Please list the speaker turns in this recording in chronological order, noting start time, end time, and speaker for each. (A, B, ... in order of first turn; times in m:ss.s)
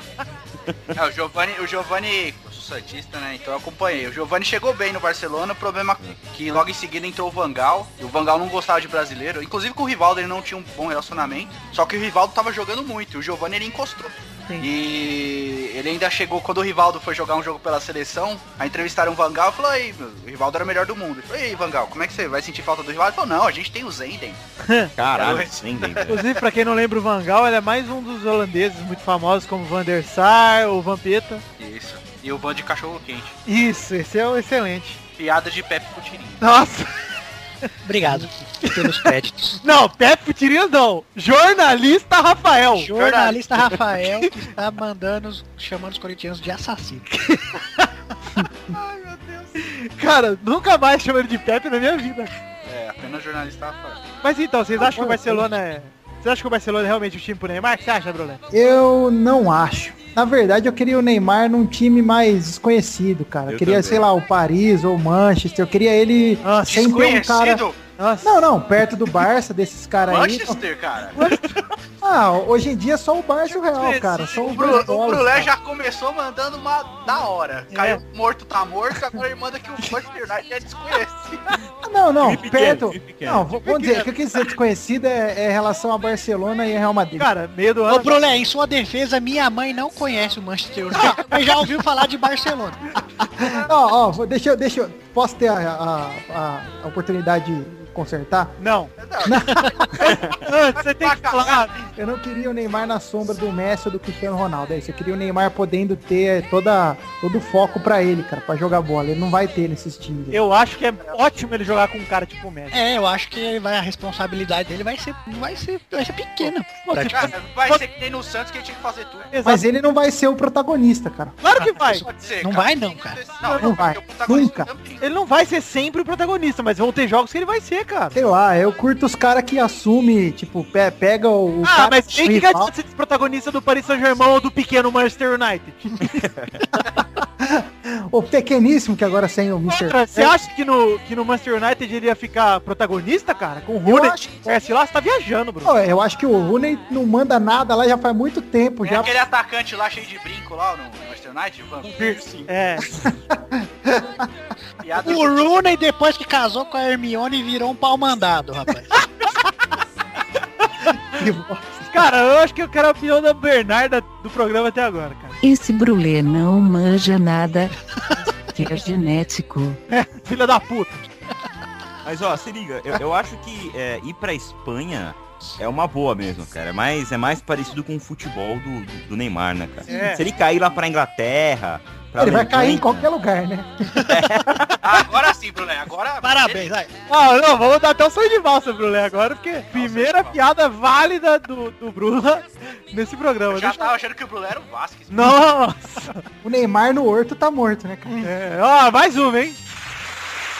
0:00.9-0:24.4 A
0:24.6-0:24.9 B
0:25.0-0:26.2 C
0:25.1-0:26.4 A
0:26.1-0:31.4 B
0:31.6-0:33.3 A
0:33.4-0:35.0 B
0:35.2-0:36.5 A
0:36.4-0:36.9 B
0:37.8-0:39.6 D
0:38.6-0:39.1 B
0:39.6-0:42.9 B
0:42.8-0:47.1 D
0:43.0-0:43.5 A
0:47.3-0:47.9 B
0:48.7-0:49.5 A
0:49.6-0:52.3 B
0:52.6-0:54.1 A
0:54.2-0:58.4 B
0:54.8-0:55.5 E
0:58.5-1:07.6 E
1:03.5-1:04.0 C
1:06.4-1:06.8 B
1:06.7-1:07.8 A
1:08.0-1:08.4 B
1:08.2-1:10.6 E
1:10.1-1:11.3 A
1:11.2-1:11.4 B
1:12.0-1:15.5 E
1:13.7-1:14.6 B
1:14.5-1:21.4 A
1:17.7-1:18.0 B
1:21.8-1:27.3 E
1:22.2-1:23.5 C
1:23.6-1:24.1 B
1:27.2-1:28.2 B
1:27.9-1:32.8 D
1:33.4-1:38.6 E
1:38.6-1:38.9 B
1:39.0-1:40.1 A
1:39.2-1:39.8 E
1:39.9-1:41.8 B
1:40.8-1:41.7 A
1:42.0-1:50.4 E
1:50.3-1:52.8 B
1:52.7-1:57.3 D
1:56.4-1:57.8 B
1:57.0-1:59.3 A
1:59.3-1:59.6 B
1:59.4-2:01.4 E
2:01.4-2:02.0 B
2:01.8-2:03.2 D
2:02.1-2:05.0 A
2:03.4-2:03.7 B
2:03.6-2:04.7 E
2:05.0-2:08.1 B
2:08.1-2:12.7 E
2:11.6-2:15.9 B
2:16.1-2:16.5 C
2:17.2-2:20.4 E
2:19.7-2:25.7 B
2:23.8-2:24.4 E
2:25.6-2:29.2 E
2:28.8-2:32.5 A
2:32.4-2:32.9 B
2:32.9-2:34.3 E
2:34.8-2:35.6 A
2:35.0-2:39.0 D
2:39.0-2:39.2 B
2:41.1-2:41.9 E
2:41.9-2:45.4 B
2:45.4-2:47.7 F
2:48.5-2:49.8 F
2:49.9-2:51.0 B
2:52.0-3:03.1 C
2:59.8-3:00.2 B
3:02.2-3:04.0 E
3:04.0-3:04.8 C
3:04.8-3:06.7 A
3:06.2-3:06.9 D
3:07.1-3:13.9 B
3:09.7-3:10.4 A
3:13.5-3:15.4 A
3:15.1-3:16.2 B
3:16.4-3:18.3 E
3:18.2-3:19.6 B